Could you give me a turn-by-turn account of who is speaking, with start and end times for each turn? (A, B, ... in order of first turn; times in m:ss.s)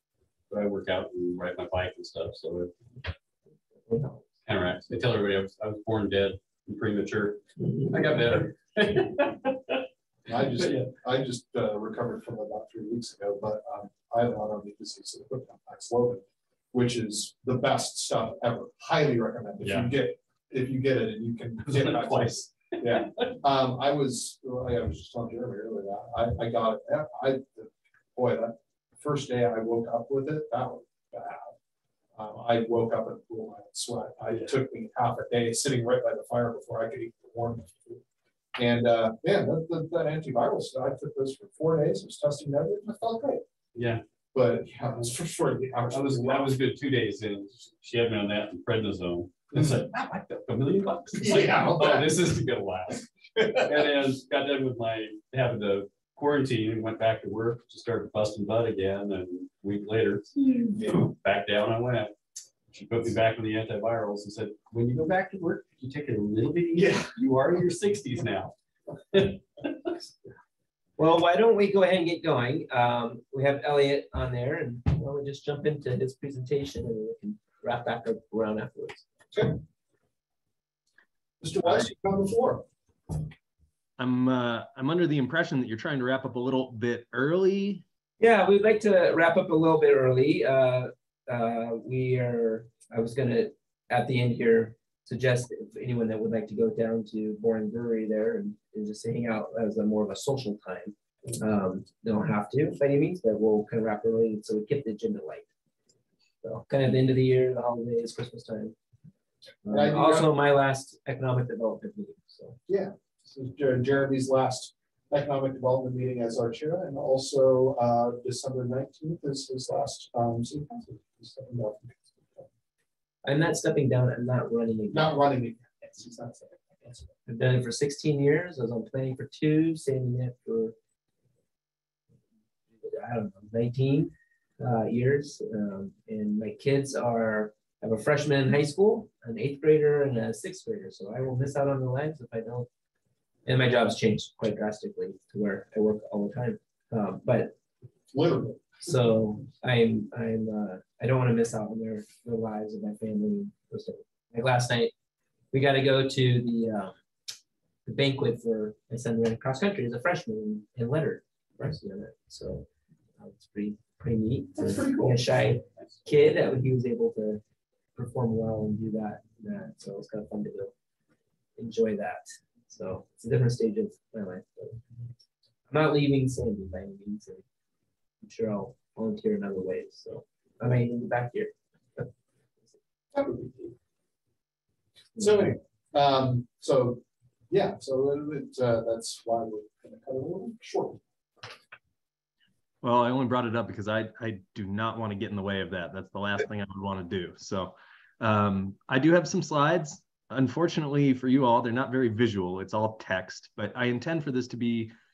0:00.5-0:02.8 A
0:03.9-0:04.2 B
0:04.5-0:10.9 A
0:10.3-0:31.5 C
0:19.6-0:19.9 A
0:21.6-0:23.4 A
0:32.1-0:38.0 C
0:34.3-0:34.5 A
0:38.6-0:43.4 C
0:43.8-0:44.0 A
0:44.3-0:46.6 C
0:45.9-1:02.1 A
0:51.2-0:52.3 C
1:02.7-1:08.5 A
1:06.7-1:07.1 C
1:09.1-1:10.0 A
1:11.0-1:19.1 B
1:21.4-1:22.6 C
1:24.0-1:27.8 D
1:28.2-1:45.5 B
1:46.4-1:48.8 B
1:49.6-1:52.6 B
1:49.7-1:50.3 C
1:52.7-2:02.5 C
2:03.2-2:05.2 B
2:04.9-2:07.1 C
2:07.2-2:10.8 B
2:12.8-2:22.7 B
2:23.5-2:27.5 B
2:28.1-2:29.1 C
2:28.8-2:34.9 B
2:35.5-2:37.0 B
2:37.8-2:42.6 B
2:43.2-2:47.4 B
2:44.6-2:45.2 C
2:48.0-2:50.7 B
2:51.6-2:54.8 B
2:55.7-2:57.4 B
2:58.2-3:01.5 B
3:03.1-3:03.7 C
3:05.2-3:05.5 B
3:05.2-3:11.0 C
3:12.8-3:24.9 D